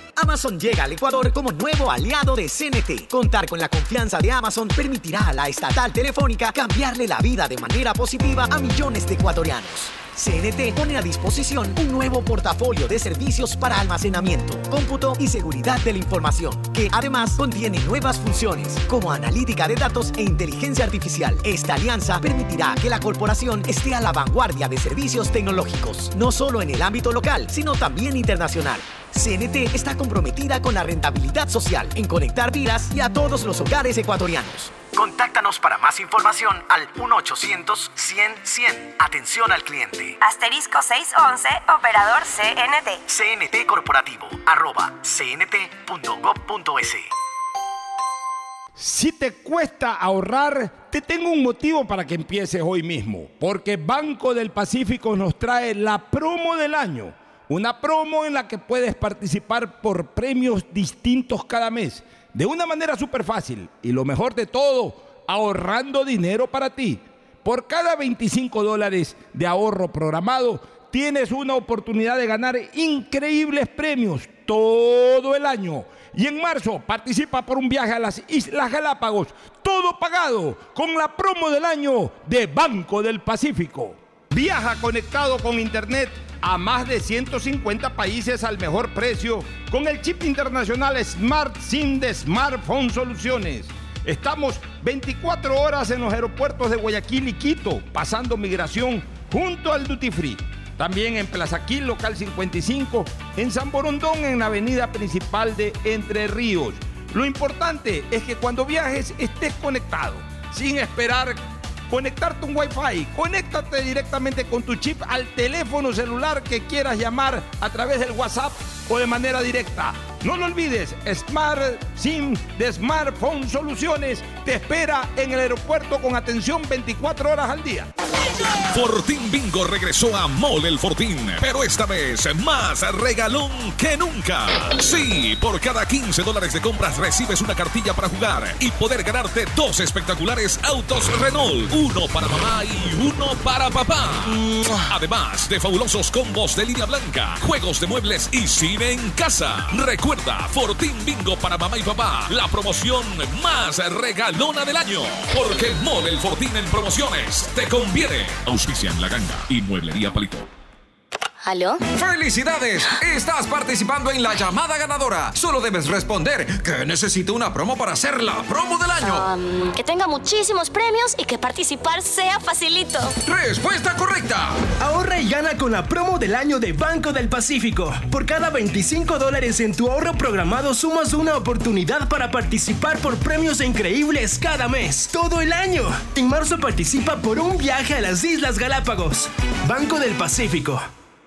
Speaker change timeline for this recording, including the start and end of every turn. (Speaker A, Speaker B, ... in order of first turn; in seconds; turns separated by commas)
Speaker A: 0.2-40.2, Speaker B: 40.2-43.0, Speaker A: 43.1-47.1, Speaker C: 48.8-127.9, Speaker D: 128.7-160.5, Speaker E: 161.4-161.8, Speaker F: 161.9-169.3, Speaker E: 169.0-173.1, Speaker F: 173.2-174.6, Speaker G: 174.8-190.8